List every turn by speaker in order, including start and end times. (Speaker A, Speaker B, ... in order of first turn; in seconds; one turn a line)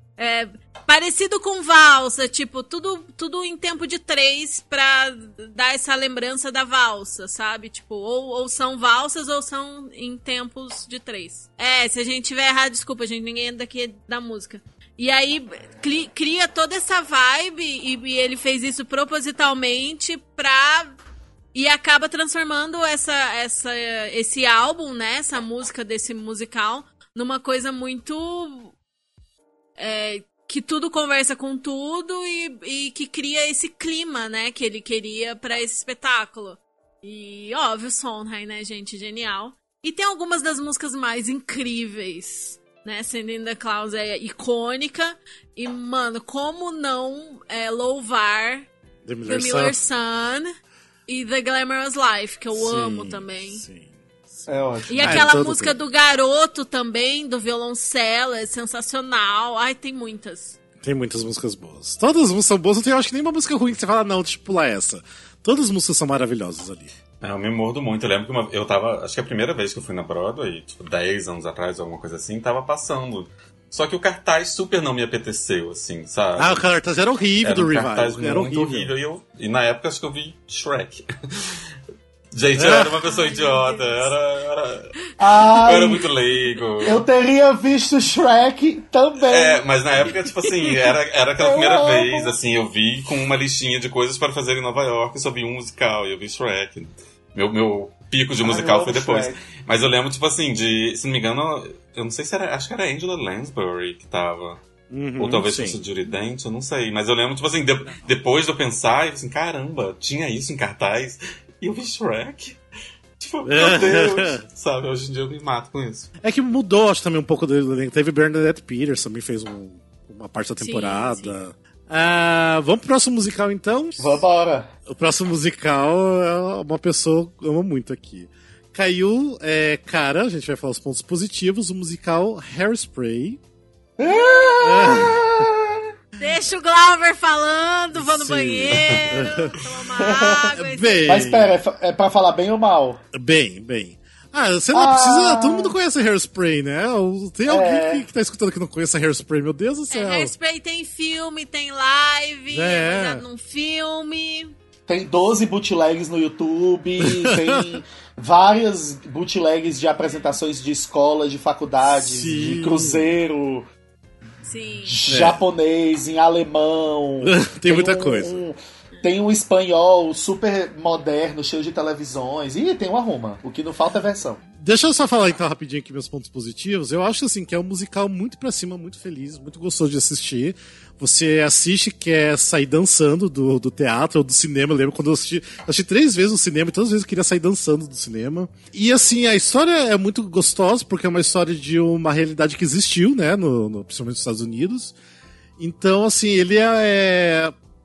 Speaker A: 0.2-20.9
Speaker A: 21.5-28.7
Speaker A: 29.8-48.7
Speaker B: 49.0-49.8
Speaker A: 49.2-50.5
Speaker A: 51.1-53.6
Speaker B: 52.5-54.5
Speaker C: 54.5-55.3
Speaker A: 54.9-60.6
Speaker B: 55.0-55.8
Speaker B: 60.8-66.9
Speaker D: 67.2-76.7
Speaker B: 76.4-78.9
Speaker D: 77.4-81.6
Speaker D: 82.3-87.0
Speaker B: 82.5-82.9
Speaker A: 83.0-84.1
Speaker C: 85.2-86.0
Speaker C: 86.8-89.6
Speaker D: 89.2-104.6
Speaker A: 90.1-90.8
Speaker C: 91.4-92.3
Speaker C: 98.4-99.4
Speaker B: 104.9-105.8
Speaker D: 105.2-112.6
Speaker D: 113.2-116.1
Speaker B: 113.4-114.4
Speaker B: 116.2-124.2
Speaker A: 120.6-121.3
Speaker C: 124.0-124.7
Speaker B: 124.9-133.4
Speaker C: 134.0-135.8
Speaker B: 134.6-135.4
Speaker A: 136.2-141.2
Speaker B: 137.9-139.6
Speaker D: 138.7-139.1
Speaker C: 140.0-143.0
Speaker B: 140.5-141.6
Speaker B: 143.1-150.3
Speaker C: 144.7-145.7
Speaker C: 147.4-148.0
Speaker A: 149.9-154.5
Speaker B: 152.5-153.2
Speaker C: 154.9-163.6
Speaker B: 157.1-157.8
Speaker A: 160.1-160.3
Speaker B: 161.8-163.1
Speaker A: 164.4-164.9
Speaker C: 164.8-174.4
Speaker B: 165.1-165.4
Speaker B: 167.2-168.4
Speaker B: 174.6-194.9
Speaker B: 195.6-197.5